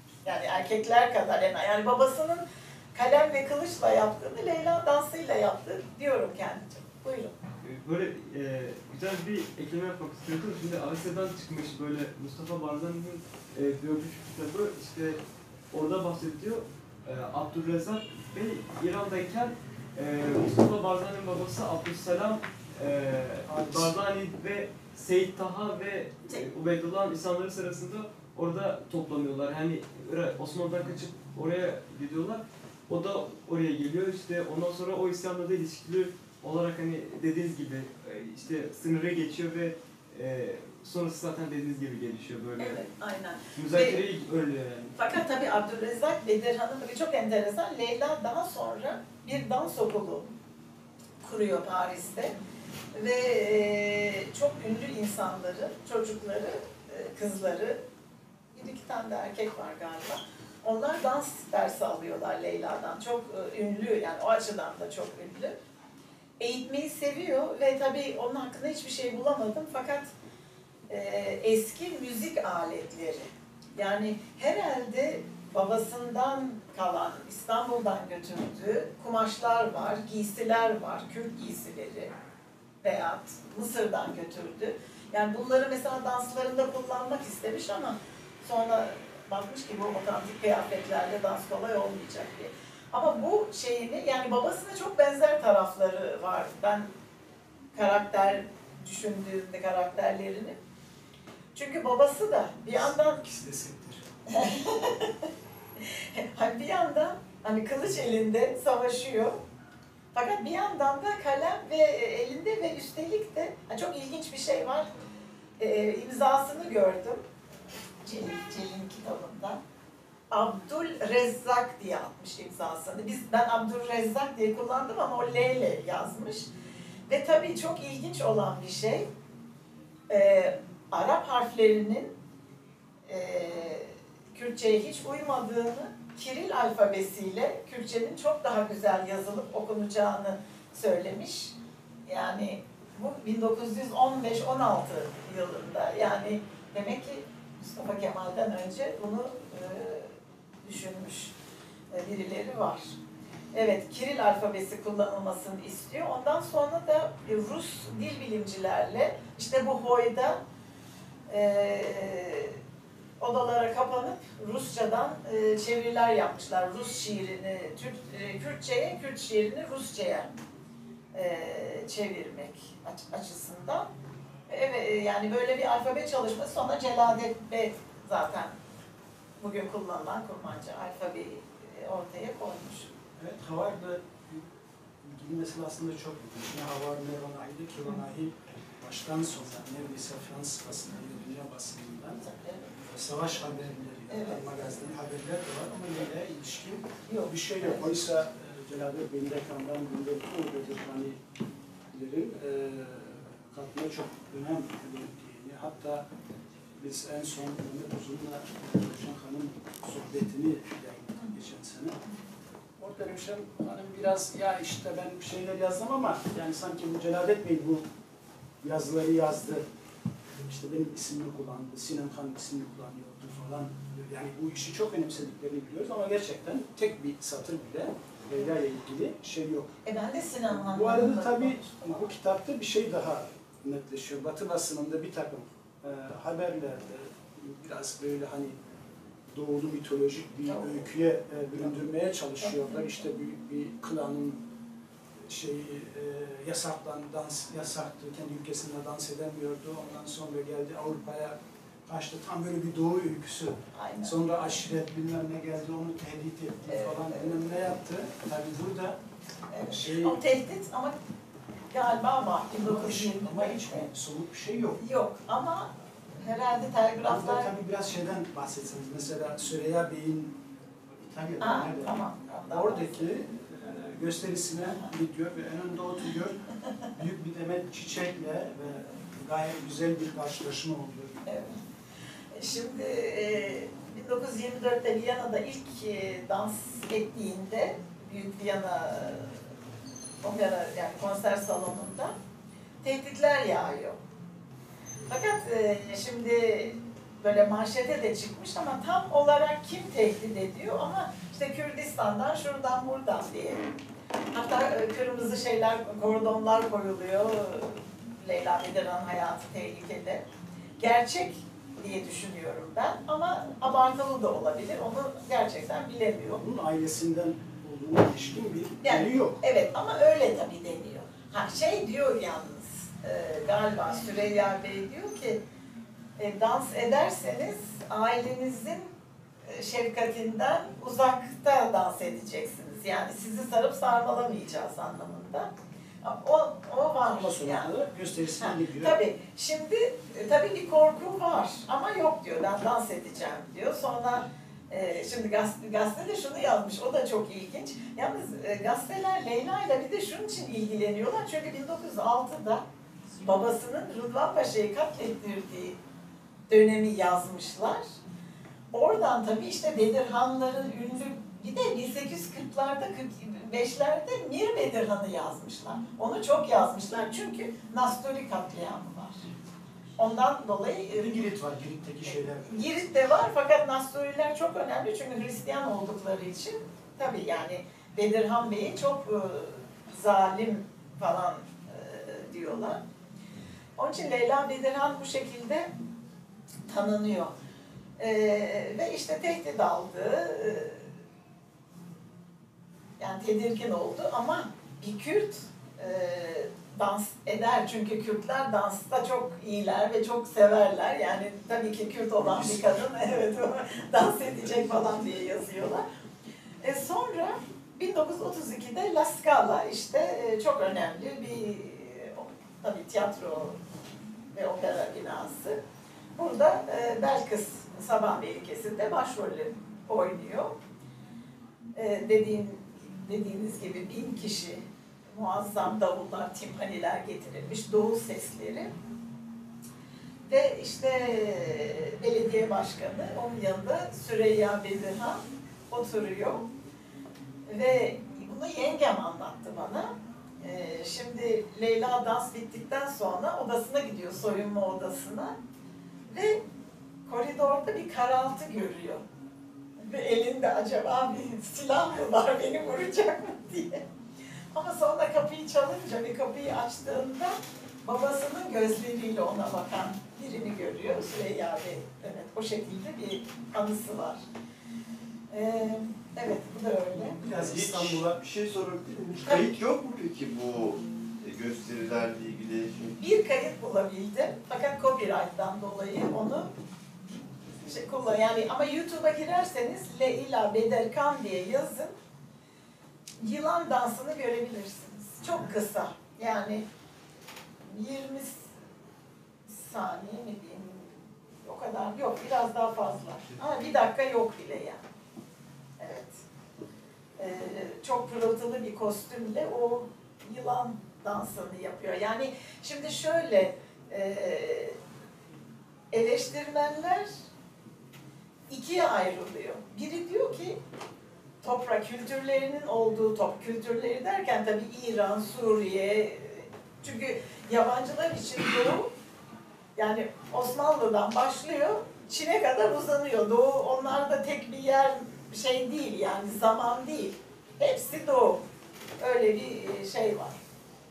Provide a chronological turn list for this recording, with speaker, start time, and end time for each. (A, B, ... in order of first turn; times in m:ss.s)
0:00.2-0:07.3 A
0:07.6-0:15.2 B
0:15.7-0:42.8 B
0:23.4-0:23.9 C
0:42.6-0:44.0 A
0:43.5-0:45.0 B
0:45.0-0:50.3 A
0:51.2-0:52.4 A
0:52.9-0:57.8 A
0:58.5-1:05.5 A
1:06.4-1:10.1 A
1:10.9-1:22.1 A
1:22.8-1:36.9 A
1:37.7-1:40.6 A
1:41.5-1:43.2 A
1:42.7-1:44.4 C
1:44.3-1:49.4 A
1:50.1-1:54.9 A
1:55.6-1:57.2 A
1:58.0-1:59.6 A
2:00.3-2:06.5 A
2:07.1-2:09.1 A
2:10.1-2:12.1 A
2:13.1-2:21.5 A
2:22.1-2:31.3 A
2:31.9-2:32.9 A
2:33.5-2:40.4 A
2:41.3-2:42.6 A
2:43.2-2:50.3 A
2:51.1-2:53.9 A
2:54.5-2:58.6 A
2:59.4-3:02.9 A
3:03.2-3:12.2 C
3:12.2-3:12.7 A
3:12.8-3:21.2 C
3:14.1-3:14.4 A
3:17.0-3:17.9 A
3:21.9-3:26.0 C
3:26.8-3:32.0 C
3:32.8-3:37.9 C
3:38.6-3:39.6 C
3:40.4-3:49.7 C
3:49.8-3:52.0 A
3:50.5-3:58.6 C
3:59.3-4:04.4 C
4:00.5-4:00.9 A
4:02.4-4:03.0 A
4:05.2-4:19.0 C
4:13.7-4:14.2 A
4:16.6-4:17.3 A
4:19.5-4:20.9 A
4:19.7-4:20.2 C
4:21.7-4:23.9 A
4:22.6-4:24.8 C
4:24.8-4:27.5 A
4:27.0-4:30.4 C
4:31.0-4:32.0 C
4:31.4-4:33.0 A
4:32.5-4:41.3 C
4:41.2-4:41.6 A
4:42.3-4:49.4 A
4:50.2-4:52.1 A
4:52.8-4:54.0 A
4:55.1-5:03.6 A
5:04.3-5:10.2 A
5:10.8-5:16.4 A
5:16.3-5:19.4 C
5:18.8-5:25.4 A
5:26.2-5:28.9 A
5:29.4-5:35.5 A
5:36.0-5:37.7 A
5:37.1-5:39.0 C
5:38.4-5:52.6 A
5:53.2-5:55.8 A
5:56.5-5:57.8 A
5:58.7-6:09.2 A
6:10.0-6:11.2 A
6:11.0-6:12.7 C
6:12.5-6:22.8 A
6:23.8-6:25.7 A
6:26.7-6:27.3 A
6:28.0-6:30.9 A
6:33.0-6:45.8 A
6:42.2-6:42.8 C
6:46.6-6:53.6 A
6:54.3-6:55.6 A
6:56.2-7:00.5 A
7:01.7-7:08.7 A
7:10.3-7:16.5 A
7:17.5-7:25.4 A
7:26.1-7:26.4 A
7:27.0-7:29.0 A
7:29.8-7:33.8 A
7:34.5-7:44.2 A
7:45.3-7:47.2 A
7:47.2-7:48.2 C
7:47.3-7:53.0 D
7:53.0-7:56.5 A
7:57.6-8:01.9 A
8:03.2-8:06.6 A
8:07.6-8:08.5 A
8:09.5-8:10.9 A
8:11.4-8:14.8 A
8:15.8-8:16.2 A
8:17.2-8:24.8 A
8:25.9-8:27.1 A
8:28.5-8:30.6 A
8:31.4-8:38.9 A
8:39.8-8:48.4 A
8:49.0-8:50.4 A